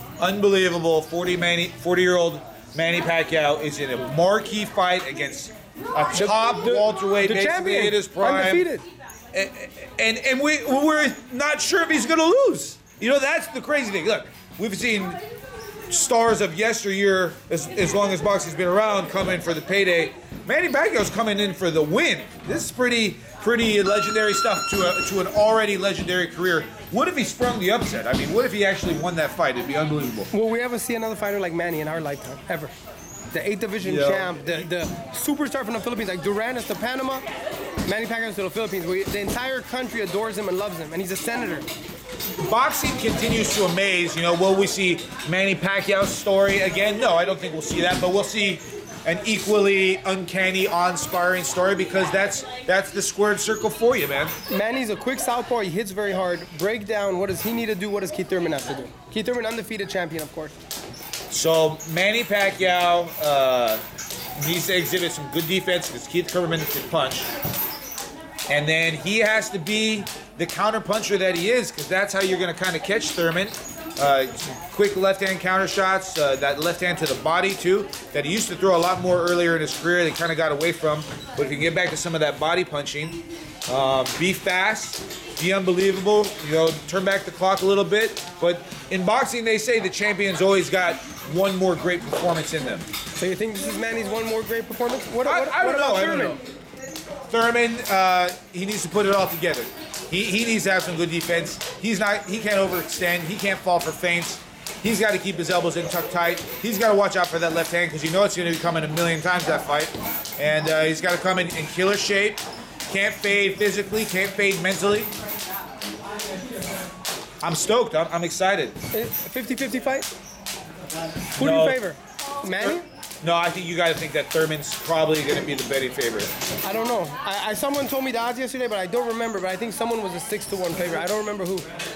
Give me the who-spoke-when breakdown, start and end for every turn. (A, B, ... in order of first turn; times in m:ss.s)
0:00.2-0:08.6 A
0:06.1-0:08.8 B
0:09.3-0:15.2 A
0:15.9-0:30.3 A
0:30.3-0:32.7 B
0:33.3-0:37.2 B
0:33.8-0:34.7 A
0:37.8-0:41.7 B
0:42.4-0:54.4 A
0:54.5-1:00.6 B
1:01.3-1:03.8 A
1:04.4-1:07.3 A
1:08.5-1:32.9 A
1:33.2-1:36.4 B
1:35.2-1:36.4 A
1:37.3-1:55.1 A
1:57.4-1:58.7 A
1:58.9-2:00.1 B
2:01.4-2:02.8 B
2:01.4-2:01.8 A
2:02.6-2:06.3 A
2:06.6-2:11.7 B